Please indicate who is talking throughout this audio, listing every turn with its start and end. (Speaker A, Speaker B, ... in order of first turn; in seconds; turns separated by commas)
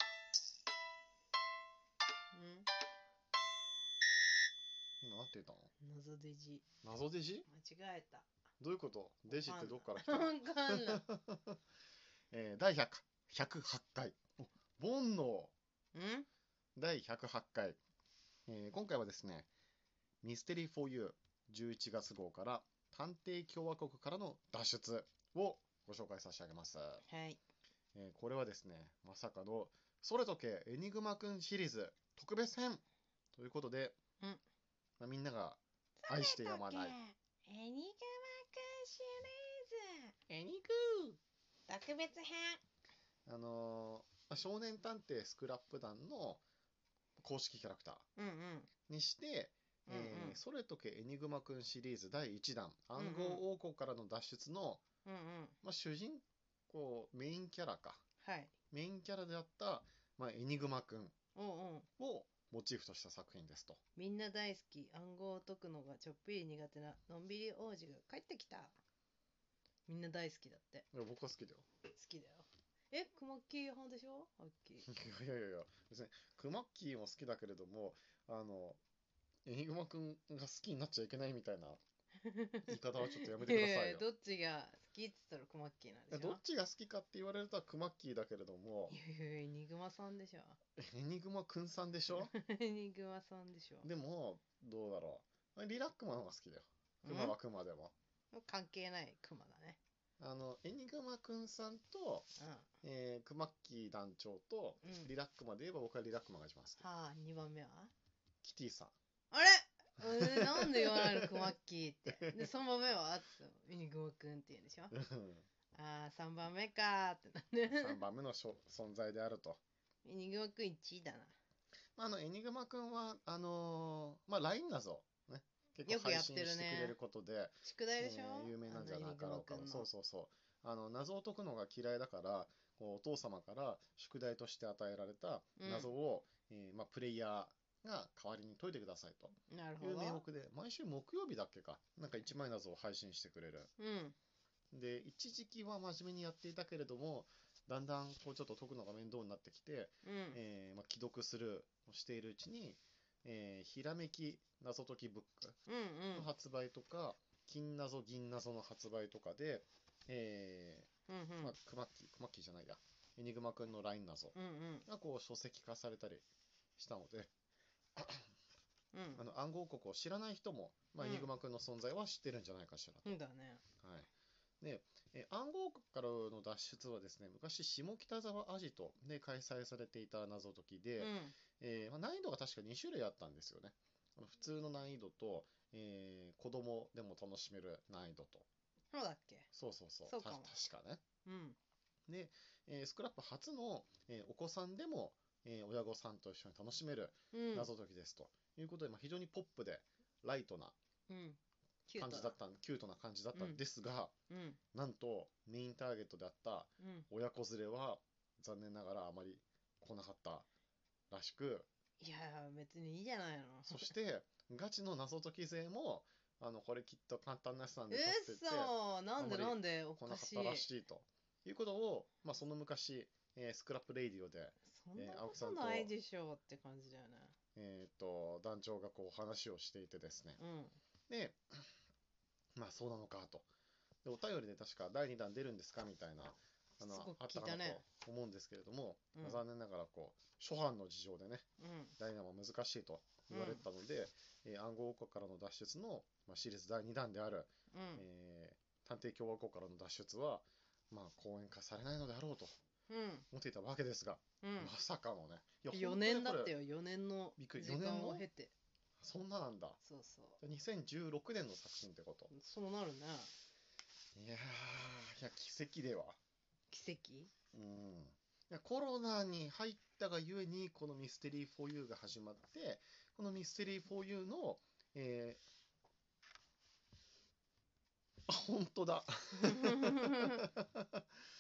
Speaker A: 2.3-2.7, Speaker B: 5.0-5.7, Speaker A: 5.8-6.7, Speaker B: 6.8-7.5, Speaker A: 7.5-8.3, Speaker B: 8.6-11.6, Speaker A: 9.3-11.0, Speaker B: 12.3-15.5, Speaker A: 15.9-16.3, Speaker B: 16.8-17.8, Speaker B: 18.5-19.5, Speaker B: 20.2-27.0, Speaker A: 27.1-27.4, Speaker B: 27.9-32.8, Speaker B: 33.4-34.0, Speaker B: 35.0-37.0, Speaker A: 36.0-40.2, Speaker B: 40.3-41.2, Speaker A: 41.7-42.6, Speaker B: 43.3-46.4, Speaker B: 47.2-48.1, Speaker A: 48.2-48.7, Speaker B: 48.9-54.8, Speaker A: 49.9-50.4, Speaker A: 53.0-53.4, Speaker A: 55.0-55.6, Speaker B: 55.6-58.0, Speaker A: 58.2-58.5, Speaker B: 58.7-61.1, Speaker A: 61.4-61.9, Speaker B: 62.0-63.8, Speaker A: 64.0-68.8, Speaker A: 69.9-70.9, Speaker B: 70.9-71.7, Speaker A: 71.9-74.9, Speaker B: 74.8-78.8, Speaker B: 79.5-81.8, Speaker A: 82.2-86.4, Speaker B: 82.7-84.0, Speaker B: 86.1-89.0, Speaker A: 88.9-90.6, Speaker B: 90.8-92.3, Speaker A: 92.1-93.9, Speaker B: 93.8-97.9, Speaker A: 97.0-97.4, Speaker A: 98.3-99.8, Speaker B: 100.2-102.3, Speaker A: 102.4-102.7, Speaker B: 102.8-106.8, Speaker A: 104.8-105.1, Speaker A: 106.8-107.9, Speaker B: 108.4-109.0, Speaker A: 109.3-114.9, Speaker B: 110.0-111.5, Speaker B: 112.1-112.5, Speaker B: 114.9-115.5, Speaker A: 115.7-118.0, Speaker B: 117.7-119.6, Speaker A: 120.0-121.3, Speaker B: 122.0-143.7, Speaker A: 125.9-127.0, Speaker A: 127.6-129.9, Speaker A: 135.6-135.9, Speaker A: 139.5-140.2, Speaker A: 143.8-144.2, Speaker B: 144.7-155.6, Speaker A: 150.0-150.4, Speaker A: 155.7-156.3, Speaker B: 156.1-160.9, Speaker A: 161.1-161.5, Speaker B: 161.4-166.2, Speaker A: 164.3-164.9, Speaker B: 166.8-167.3, Speaker B: 167.9-168.3, Speaker A: 168.9-169.2, Speaker B: 169.2-173.1, Speaker A: 171.0-171.3, Speaker A: 173.1-173.6, Speaker B: 173.8-174.1, Speaker B: 174.6-188.5, Speaker A: 181.0-181.4, Speaker A: 188.9-189.5, Speaker B: 189.5-191.0, Speaker A: 190.1-190.5, Speaker A: 191.2-191.6, Speaker B: 192.1-200.8, Speaker A: 197.3-197.7, Speaker A: 201.1-202.3, Speaker B: 202.0-204.1, Speaker A: 203.3-203.6, Speaker A: 204.3-204.6, Speaker B: 204.7-210.5, Speaker A: 206.8-207.1, Speaker B: 211.1-211.7, Speaker A: 212.0-213.9, Speaker B: 213.7-225.9, Speaker A: 217.9-220.7, Speaker A: 224.7-227.3, Speaker B: 227.6-230.4, Speaker A: 230.4-230.8, Speaker B: 231.1-231.7, Speaker B: 232.6-233.5, Speaker B: 234.0-241.5, Speaker A: 236.8-237.8, Speaker A: 239.2-239.4, Speaker A: 241.6-241.9, Speaker B: 242.0-252.6, Speaker A: 243.3-243.6, Speaker A: 247.7-248.0, Speaker A: 252.9-253.3, Speaker B: 253.3-256.6, Speaker A: 254.4-254.7, Speaker A: 255.7-258.5, Speaker B: 257.4-258.3, Speaker B: 259.0-259.8, Speaker A: 259.8-260.4, Speaker B: 260.4-262.3, Speaker A: 262.3-263.3, Speaker B: 264.1-266.2, Speaker A: 266.7-267.3, Speaker B: 267.5-275.4, Speaker B: 278.3-281.0, Speaker A: 279.4-280.4